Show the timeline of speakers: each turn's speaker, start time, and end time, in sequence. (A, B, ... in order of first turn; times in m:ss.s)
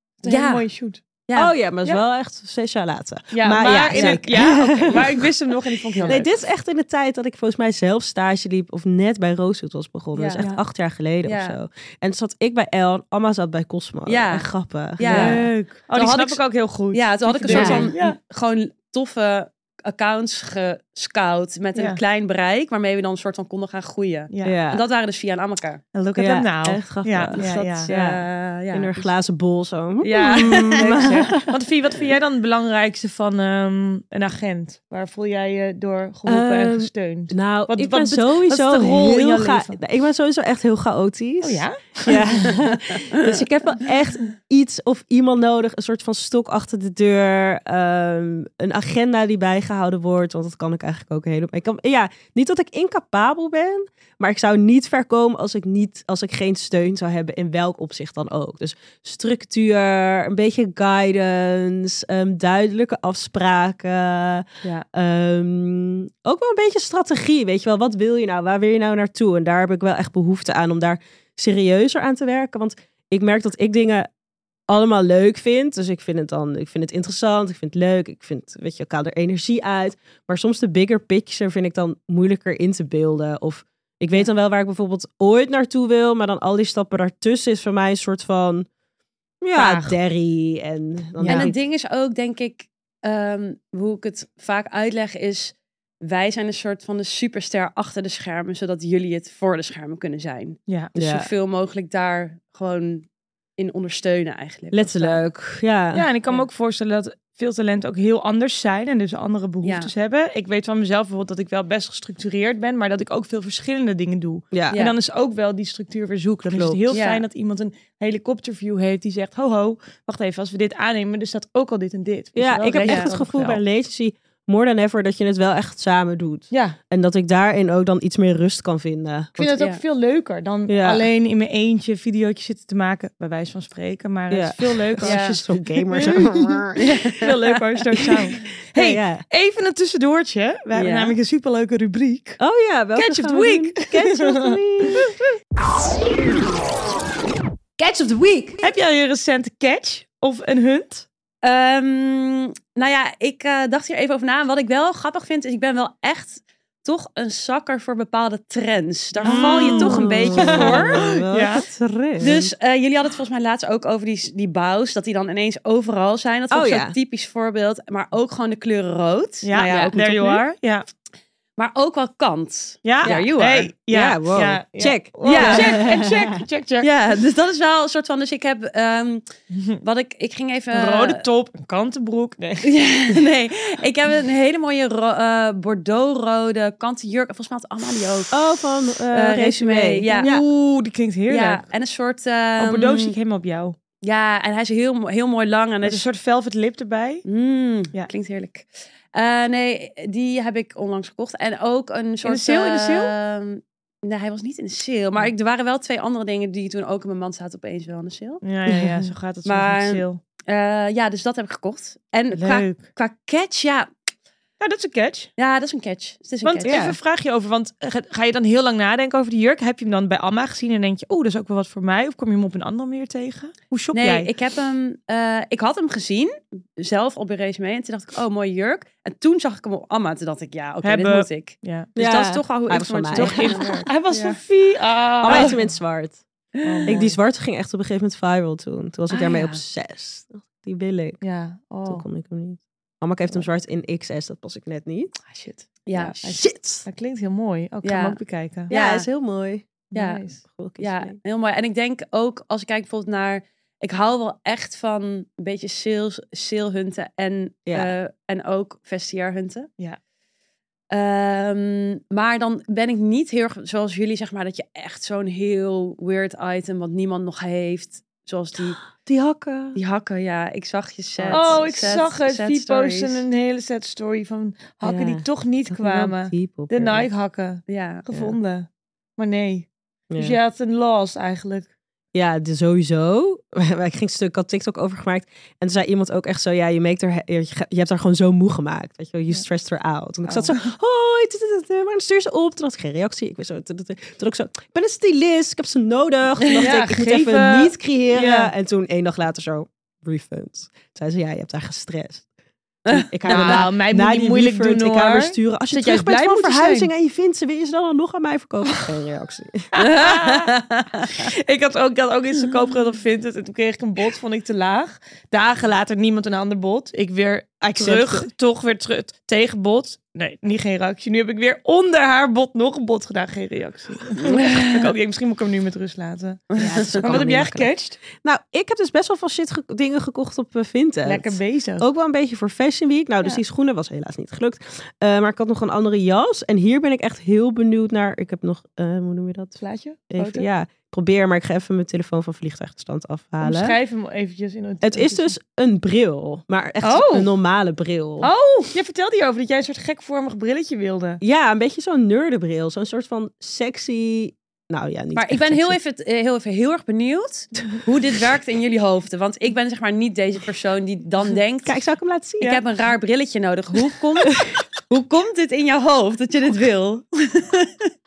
0:00.2-0:01.0 A
0:00.2-0:00.7 B
0:01.3-0:01.5 B
0:01.4-0:05.3 C
0:03.3-0:06.3 A
0:03.9-0:05.1 B
0:06.1-0:15.5 C
0:10.2-0:10.5 B
0:11.2-0:11.6 B
0:14.1-0:25.8 B
0:15.0-0:18.2 A
0:17.5-0:17.9 C
0:21.8-0:22.0 A
0:24.3-0:24.6 A
0:24.4-0:24.8 C
0:25.9-0:27.9 A
0:26.2-0:31.5 C
0:27.4-0:29.1 B
0:30.0-0:31.4 B
0:30.1-0:39.8 A
0:36.3-1:14.1 C
0:41.4-0:42.5 A
1:14.7-1:28.7 C
1:29.4-1:31.6 C
1:29.6-1:30.0 A
1:31.2-1:31.5 A
1:31.2-1:45.2 B
1:41.0-1:41.3 C
1:44.7-1:46.1 C
1:45.9-2:03.6 A
1:49.6-1:49.9 B
1:54.5-1:54.8 C
1:54.7-1:55.0 B
1:56.5-1:56.9 C
1:56.9-1:57.2 B
2:02.4-2:09.5 C
2:02.8-2:03.1 B
2:06.5-2:06.8 A
2:09.4-2:22.4 A
2:09.5-2:09.8 B
2:10.7-2:11.1 C
2:14.3-2:17.0 C
2:15.0-2:15.4 B
2:16.8-2:17.6 B
2:18.7-2:19.2 C
2:20.8-2:21.2 B
2:22.4-2:25.2 C
2:23.0-2:25.1 A
2:27.8-2:28.7 C
2:28.6-2:31.1 A
2:31.4-2:41.2 B
2:39.2-2:41.7 A
2:39.2-2:42.5 C
2:42.2-2:50.4 B
2:46.5-2:47.0 C
2:49.4-2:50.8 A
2:51.6-2:53.7 B
2:52.8-2:56.9 A
2:53.0-2:53.3 C
2:53.9-2:56.2 C
2:55.2-2:55.9 B
2:56.8-2:59.3 B
2:59.5-2:59.8 A
2:59.8-3:01.2 B
3:00.7-3:02.7 A
3:02.6-3:08.4 B
3:08.3-3:10.4 C
3:09.1-3:10.3 B
3:10.1-3:11.6 A
3:11.3-3:13.2 B
3:12.6-3:13.8 A
3:14.0-3:16.1 B
3:15.8-3:17.2 A
3:17.3-3:28.4 B
3:22.2-3:23.1 A
3:28.4-3:30.2 A
3:28.7-3:29.0 C
3:29.4-3:33.9 B
3:32.3-3:32.8 A
3:34.6-3:35.3 A
3:35.4-3:36.8 B
3:36.4-3:44.3 A
3:36.6-3:37.0 C
3:44.0-3:54.4 B
3:50.8-3:51.9 A
3:52.0-3:53.6 C
3:53.1-3:55.7 A
3:55.2-3:56.2 C
3:55.3-3:55.6 B
3:56.6-3:57.0 B
3:56.6-3:57.2 A
3:56.9-4:01.2 C
3:59.1-3:59.6 B
4:01.2-4:02.0 A
4:01.9-4:05.2 C
4:05.2-4:08.7 A
4:05.9-4:06.3 B
4:06.2-4:06.9 C
4:07.8-4:08.2 B
4:08.7-4:09.1 B
4:08.7-4:09.7 C
4:09.9-4:10.4 A
4:09.9-4:10.3 B
4:10.4-4:11.2 C
4:10.8-4:19.7 B
4:17.7-4:17.9 C
4:20.9-4:28.8 B
4:28.9-4:29.8 C
4:29.8-4:33.2 B
4:31.2-4:31.7 C
4:31.3-4:41.7 A
4:34.8-4:37.1 C
4:37.7-4:38.1 B
4:40.1-4:40.4 C
4:42.1-5:02.3 C
4:50.2-4:50.6 A
4:56.5-4:58.5 A
5:02.9-5:03.7 B
5:02.9-5:09.7 C
5:03.3-5:06.9 A
5:09.7-5:10.5 A
5:09.8-5:11.2 B
5:11.0-5:28.0 A
5:17.8-5:18.3 C
5:24.3-5:24.8 B
5:26.6-5:27.2 B
5:26.6-5:43.8 C
5:31.0-5:31.9 A
5:39.6-5:40.5 A
5:43.4-5:45.3 A
5:44.8-5:48.3 C
5:46.8-5:47.3 A
5:48.2-5:51.2 A
5:51.2-5:55.8 C
5:55.2-6:01.8 B
6:01.6-6:02.6 C
6:02.4-6:07.9 B